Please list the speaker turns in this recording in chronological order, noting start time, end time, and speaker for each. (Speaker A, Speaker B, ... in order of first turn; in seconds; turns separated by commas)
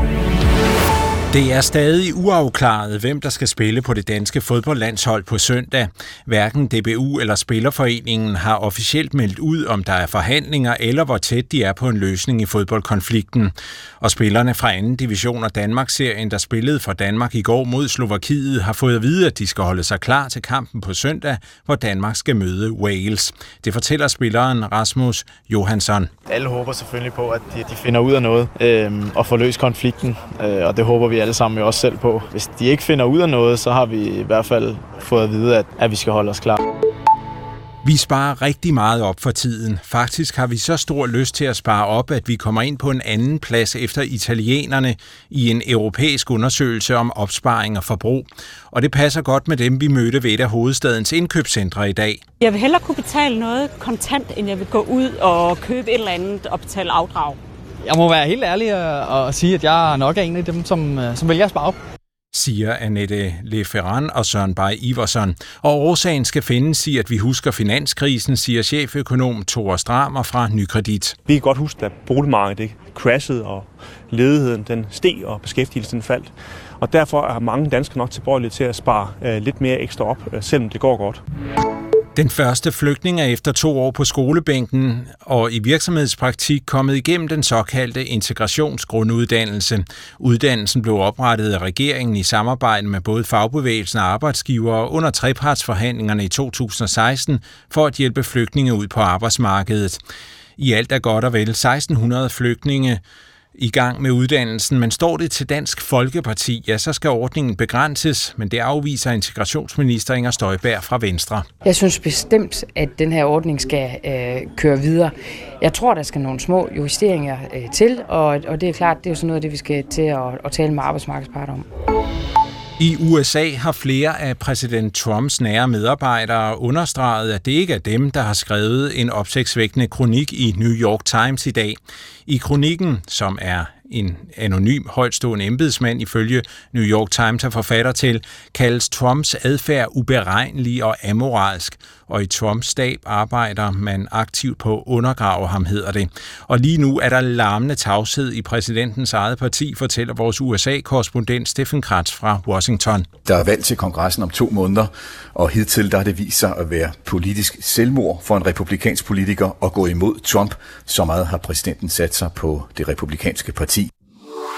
Speaker A: 1.3-26.1, Speaker B: 26.2-36.5, Speaker A: 37.8-52.3, Speaker C: 52.4-57.4, Speaker D: 57.8-61.8, Speaker A: 62.3-71.2, Speaker E: 71.2-81.2, Speaker A: 82.1-100.0, Speaker A: 100.6-103.0, Speaker A: 103.5-111.5, Speaker F: 111.6-121.7, Speaker A: 122.8-153.1, Speaker G: 153.2-163.9